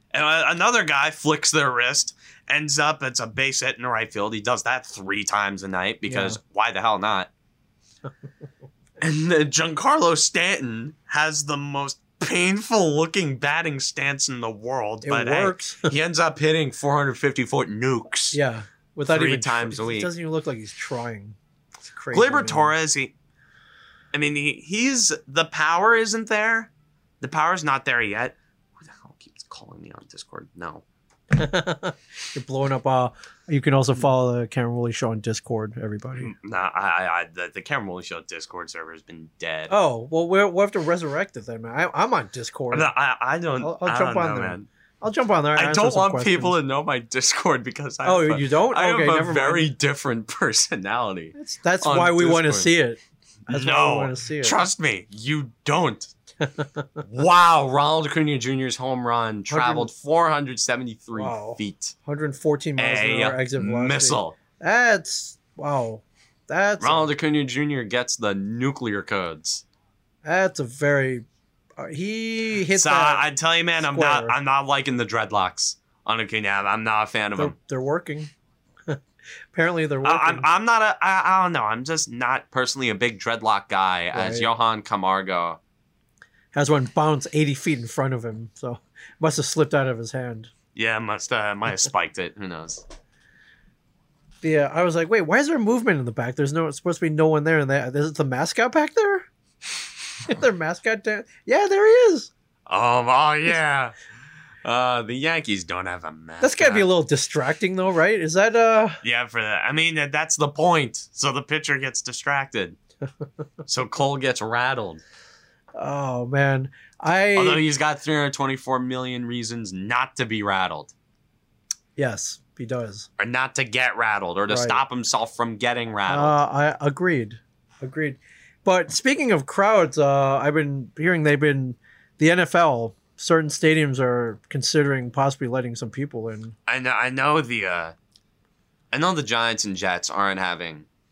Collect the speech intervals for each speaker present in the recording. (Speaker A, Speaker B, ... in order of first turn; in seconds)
Speaker A: 0.1-7.3, 9.0-18.4, 19.0-20.1, 22.1-23.1, 24.1-30.8, 36.2-39.7, 42.7-44.7, 45.5-52.7, 53.5-56.1, 57.0-61.9, 62.8-64.3, 66.8-69.6, 72.7-77.5, 80.0-85.6, 90.7-92.8, 102.7-103.9, 104.6-106.9, 109.0-112.8, 113.7-115.0, 117.3-120.9, 123.2-126.4, 136.7-137.9, 138.9-140.8
Speaker B: 6.1-6.4, 15.0-15.9, 18.3-22.7, 31.3-36.3, 39.7-42.9, 43.6-46.5, 48.0-49.7, 51.3-54.6, 56.4-56.9, 59.5-59.9, 61.1-67.1, 70.2-71.2, 71.8-73.2, 73.8-74.3, 77.4-78.3, 79.5-80.5, 84.1-84.5, 86.5-90.5, 94.4-99.3, 100.2-102.3, 106.4-109.0, 115.8-117.6, 122.0-123.1, 124.5-124.8, 126.1-136.5